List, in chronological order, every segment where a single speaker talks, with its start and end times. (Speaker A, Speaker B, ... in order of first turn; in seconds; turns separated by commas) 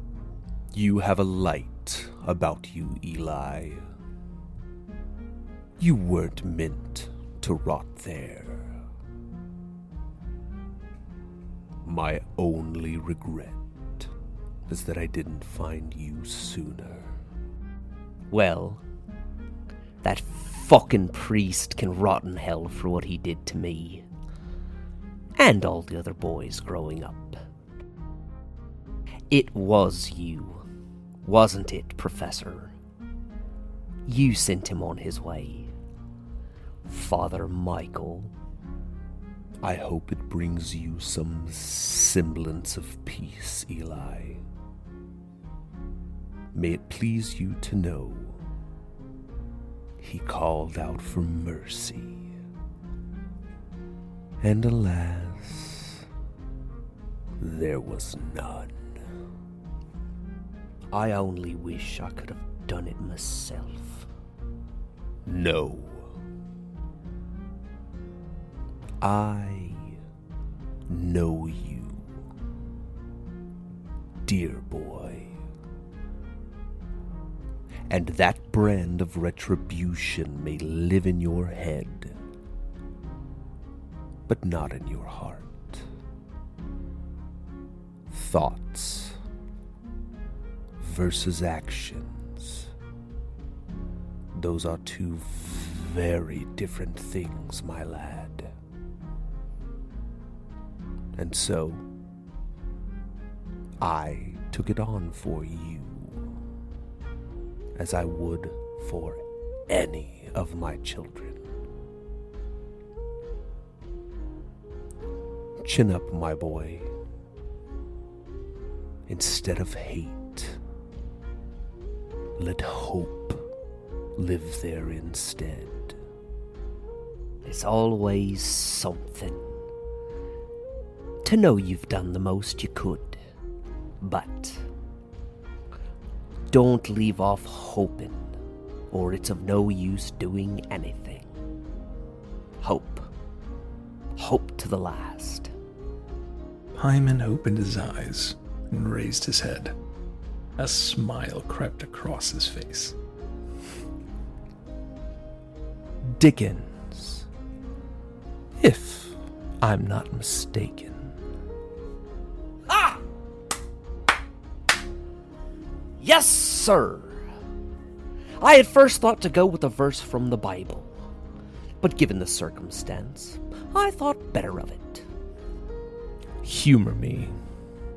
Speaker A: 0.7-3.9, Speaker A: 5.8-8.8, Speaker A: 11.9-14.1, Speaker A: 14.7-17.1, Speaker B: 18.3-18.8, Speaker B: 20.0-24.1, Speaker B: 25.4-27.4, Speaker B: 29.3-30.6, Speaker B: 31.2-32.8, Speaker B: 34.1-35.7, Speaker B: 36.9-38.3, Speaker A: 39.6-44.4, Speaker A: 46.5-48.4, Speaker A: 50.0-52.2, Speaker A: 54.4-56.0, Speaker A: 57.4-58.8, Speaker B: 60.9-64.1, Speaker A: 65.3-66.1, Speaker A: 69.0-69.8, Speaker A: 70.9-72.0, Speaker A: 74.2-75.3, Speaker A: 77.9-82.1, Speaker A: 84.3-85.8, Speaker A: 88.1-89.2, Speaker A: 90.8-92.7, Speaker A: 94.3-98.5, Speaker A: 101.2-101.8, Speaker A: 103.8-106.3, Speaker A: 107.8-111.4, Speaker A: 115.6-116.9, Speaker A: 119.1-120.6, Speaker A: 122.4-123.5, Speaker A: 124.2-126.0, Speaker B: 127.5-129.4, Speaker B: 131.2-133.2, Speaker B: 134.0-134.7, Speaker B: 136.5-138.3, Speaker B: 138.9-141.3, Speaker B: 142.6-143.1, Speaker B: 144.2-145.5, Speaker C: 146.8-149.8, Speaker C: 150.6-153.0, Speaker A: 156.1-157.3, Speaker A: 158.6-161.2, Speaker B: 162.7-163.0, Speaker B: 166.0-167.2, Speaker B: 168.4-170.9, Speaker B: 171.8-175.1, Speaker A: 176.4-177.4